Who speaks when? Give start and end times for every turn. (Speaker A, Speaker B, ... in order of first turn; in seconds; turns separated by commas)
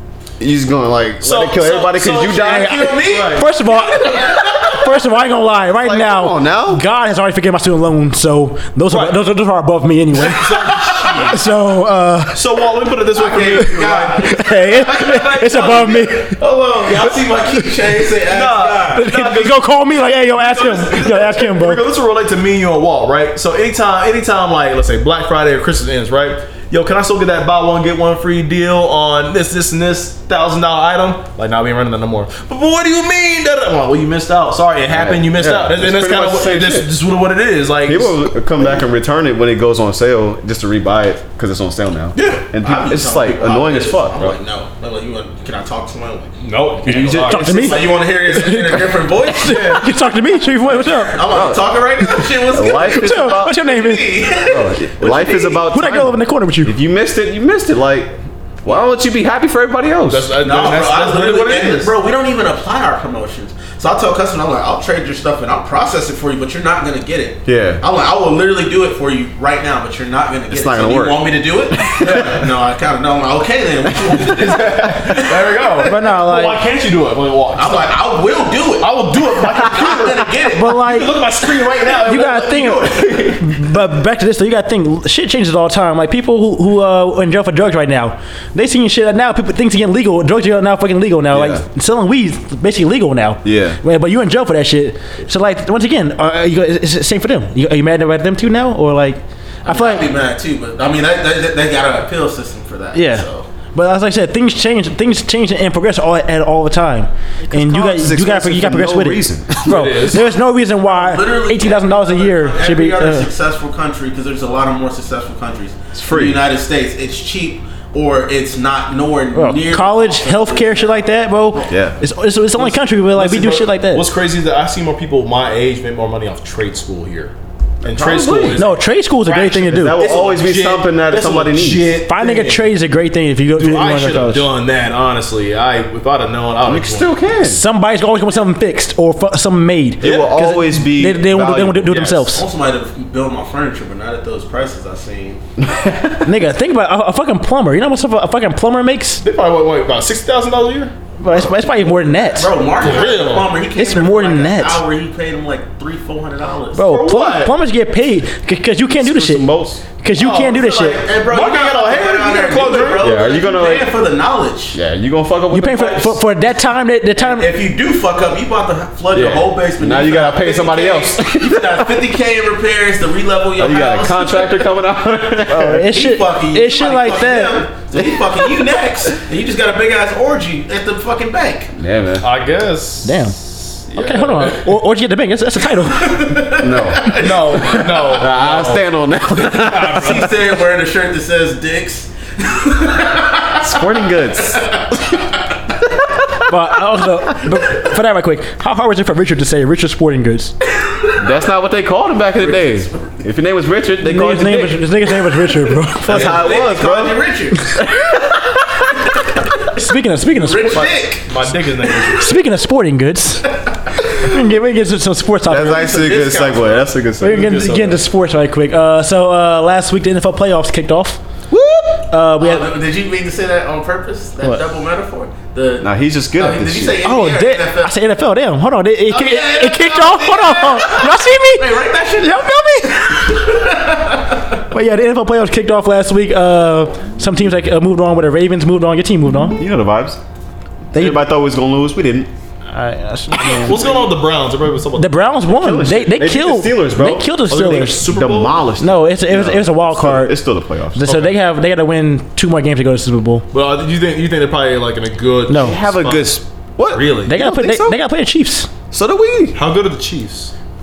Speaker A: 0.4-2.8, Speaker B: 1.2-3.5, Speaker C: 2.3-4.8, Speaker D: 2.4-12.4, Speaker A: 5.7-6.8, Speaker B: 8.9-9.2, Speaker B: 10.2-11.4, Speaker B: 12.3-16.1, Speaker C: 13.2-19.1, Speaker D: 14.2-16.4, Speaker B: 18.3-19.6, Speaker D: 18.9-21.8, Speaker B: 20.3-38.2, Speaker A: 34.9-36.9, Speaker A: 37.9-44.4, Speaker B: 42.1-42.4, Speaker C: 42.6-46.3, Speaker B: 46.4-47.6, Speaker A: 46.8-47.8, Speaker D: 47.3-51.3, Speaker C: 47.5-49.9, Speaker C: 50.7-55.7, Speaker A: 51.3-51.6, Speaker A: 52.5-53.6, Speaker D: 52.8-54.2, Speaker A: 54.5-60.4, Speaker D: 55.7-56.7, Speaker B: 60.1-61.9, Speaker C: 60.4-75.9, Speaker A: 67.4-67.8, Speaker A: 70.5-72.3, Speaker B: 72.0-72.4, Speaker B: 74.2-78.0, Speaker D: 75.8-76.6, Speaker C: 77.6-80.7, Speaker B: 78.8-83.4, Speaker D: 80.5-81.2, Speaker D: 82.0-100.1, Speaker A: 91.3-91.6, Speaker A: 93.4-93.8, Speaker C: 99.6-103.5, Speaker D: 102.9-113.3, Speaker A: 107.5-109.8, Speaker B: 109.6-110.2, Speaker C: 110.8-121.7, Speaker A: 115.9-116.4, Speaker D: 119.3-124.1, Speaker A: 121.7-122.0, Speaker B: 122.5-132.7, Speaker A: 127.8-128.7, Speaker D: 128.6-130.1, Speaker A: 129.7-132.0, Speaker D: 132.1-134.5, Speaker B: 133.6-137.1, Speaker A: 136.6-137.6, Speaker D: 137.4-142.4, Speaker A: 140.0-142.2, Speaker B: 140.0-140.3, Speaker C: 142.3-145.4, Speaker A: 145.6-146.3, Speaker D: 146.2-149.2, Speaker B: 149.2-150.9, Speaker D: 151.2-152.5, Speaker C: 152.3-156.8, Speaker B: 152.8-153.6, Speaker D: 153.7-154.8, Speaker D: 156.7-161.0, Speaker B: 156.9-157.5, Speaker A: 159.0-159.8, Speaker C: 160.2-164.8, Speaker B: 160.2-160.5, Speaker B: 161.3-163.1, Speaker A: 163.0-163.9, Speaker A: 164.7-166.1, Speaker D: 165.5-167.5, Speaker C: 167.2-174.7, Speaker A: 169.1-172.0, Speaker A: 173.6-175.9, Speaker D: 175.5-177.7, Speaker C: 175.9-181.7, Speaker A: 177.9-178.4, Speaker A: 181.8-182.3, Speaker B: 182.2-184.7, Speaker D: 183.0-183.4, Speaker D: 183.9-186.5, Speaker C: 185.9-187.8, Speaker A: 186.6-187.2, Speaker B: 187.2-190.3, Speaker A: 188.0-190.3, Speaker C: 189.9-193.7, Speaker A: 193.6-195.0, Speaker C: 194.5-194.8, Speaker D: 196.5-200.5, Speaker A: 201.2-204.8, Speaker D: 204.0-206.4, Speaker A: 206.1-207.2, Speaker C: 206.1-207.6, Speaker B: 206.1-206.5, Speaker A: 207.8-208.2, Speaker D: 209.7-210.9, Speaker C: 210.4-211.3, Speaker B: 210.7-212.3, Speaker D: 212.2-215.9, Speaker A: 215.4-217.6, Speaker C: 215.6-216.9, Speaker D: 217.2-221.2, Speaker B: 217.2-218.0, Speaker A: 221.5-222.0, Speaker D: 222.1-222.7, Speaker C: 222.4-227.9, Speaker A: 225.8-227.0, Speaker D: 227.0-233.3, Speaker C: 229.1-234.6, Speaker D: 234.7-239.6, Speaker A: 239.5-240.2, Speaker A: 240.9-242.3, Speaker D: 240.9-241.2, Speaker D: 242.7-243.9, Speaker B: 243.3-245.3, Speaker D: 244.9-248.1, Speaker A: 245.5-247.3, Speaker B: 247.5-248.6, Speaker A: 248.1-251.2, Speaker D: 248.8-250.3, Speaker D: 250.9-253.4, Speaker B: 251.1-251.3, Speaker B: 253.5-256.4, Speaker D: 255.5-255.8, Speaker A: 255.5-258.0, Speaker B: 256.9-257.3, Speaker D: 257.3-258.7, Speaker A: 258.9-259.6, Speaker B: 259.6-260.5